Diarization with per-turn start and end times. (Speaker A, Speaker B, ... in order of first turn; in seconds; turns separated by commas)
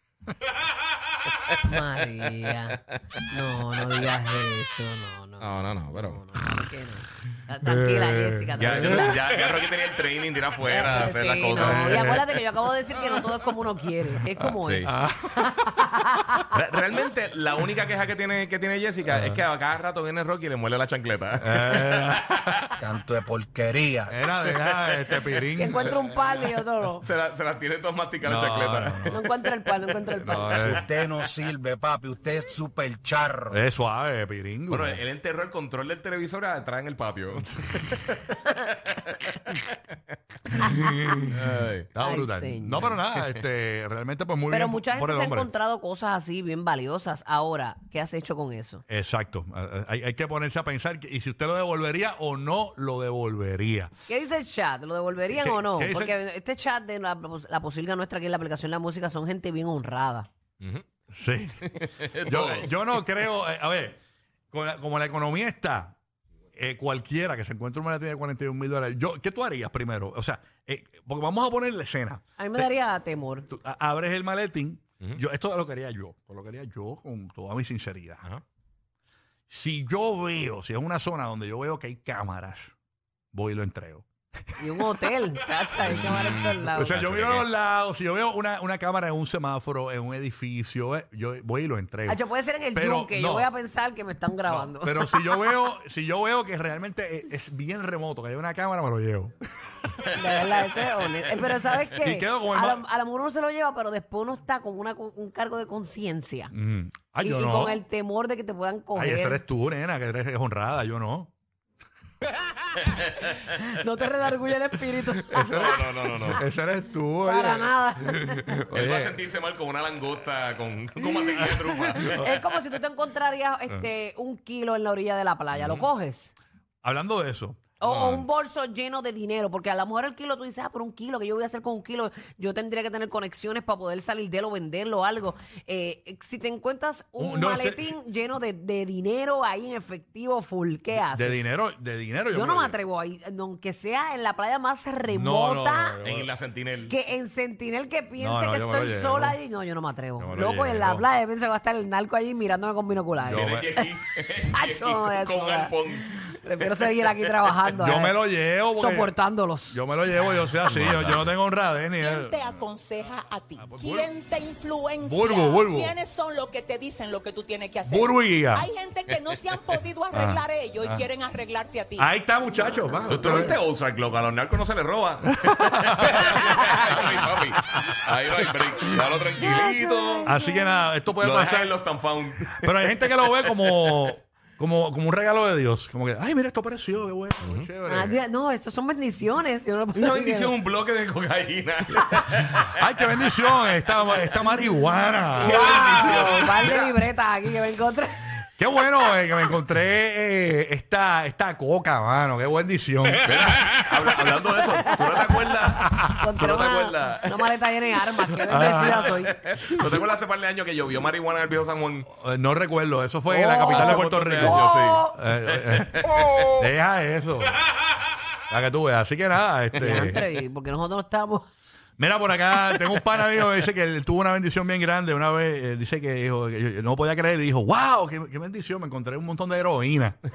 Speaker A: 1.6-9.2, Speaker B: 5.4-6.2, Speaker C: 7.7-9.3, Speaker B: 8.6-12.2, Speaker A: 10.7-16.6, Speaker C: 11.6-12.2, Speaker B: 14.6-14.9, Speaker C: 14.9-16.4, Speaker B: 16.5-22.5, Speaker C: 19.1-19.4, Speaker C: 21.4-22.6, Speaker D: 22.8-24.1, Speaker C: 24.1-26.0, Speaker B: 24.4-29.1, Speaker A: 25.6-27.1, Speaker C: 28.2-29.2, Speaker A: 29.1-30.6, Speaker C: 30.2-30.8, Speaker D: 30.6-33.6, Speaker C: 33.5-35.0, Speaker B: 34.7-39.7, Speaker C: 40.5-45.5, Speaker B: 41.3-41.9, Speaker A: 42.0-42.9, Speaker A: 44.5-48.8, Speaker C: 48.9-53.9, Speaker A: 54.1-60.3, Speaker C: 55.4-56.1, Speaker C: 61.1-64.0, Speaker B: 61.6-62.7, Speaker C: 64.5-66.0, Speaker C: 66.6-72.6, Speaker A: 72.4-73.5, Speaker C: 73.5-78.2, Speaker C: 79.5-82.7, Speaker C: 83.3-84.1, Speaker A: 84.6-87.0, Speaker C: 85.8-92.2, Speaker B: 85.9-87.5, Speaker A: 92.1-95.6, Speaker C: 92.7-93.5, Speaker C: 94.5-99.3, Speaker A: 100.1-106.5, Speaker C: 102.0-102.8, Speaker C: 106.5-107.8, Speaker A: 107.2-109.4, Speaker C: 109.0-111.3, Speaker A: 113.5-115.9, Speaker C: 115.3-119.2, Speaker B: 115.5-116.4, Speaker A: 117.2-118.6, Speaker B: 118.7-122.3, Speaker C: 121.4-122.4, Speaker A: 122.0-126.3, Speaker B: 125.5-125.8, Speaker C: 126.8-127.6, Speaker A: 127.8-141.4, Speaker B: 127.8-128.2, Speaker C: 137.2-137.9, Speaker C: 140.9-142.8, Speaker A: 142.3-146.0, Speaker C: 145.1-146.3, Speaker B: 146.0-146.9, Speaker A: 146.9-153.9, Speaker C: 148.2-149.4, Speaker C: 150.2-151.1, Speaker C: 153.2-153.7, Speaker B: 153.3-156.3, Speaker A: 154.4-158.2, Speaker C: 157.8-159.1, Speaker A: 158.7-159.8, Speaker C: 159.7-162.6, Speaker B: 160.6-161.3, Speaker E: 161.9-172.1, Speaker C: 163.6-164.1, Speaker C: 165.0-165.9, Speaker C: 167.9-168.7, Speaker C: 170.1-171.1, Speaker C: 172.0-173.6, Speaker B: 173.1-180.3, Speaker C: 175.4-177.9, Speaker A: 179.4-180.8, Speaker C: 180.2-181.7, Speaker B: 181.1-184.1, Speaker C: 182.6-188.2, Speaker A: 187.8-190.5, Speaker B: 189.9-194.5, Speaker C: 192.7-196.3, Speaker B: 195.4-196.9, Speaker A: 195.4-198.3, Speaker C: 198.6-203.3, Speaker B: 203.2-207.5, Speaker A: 206.2-209.4, Speaker C: 208.5-210.0, Speaker B: 209.0-212.1, Speaker C: 212.1-217.6, Speaker A: 213.3-215.2, Speaker B: 213.6-216.5, Speaker C: 218.5-220.2, Speaker A: 219.8-221.4, Speaker C: 222.0-230.2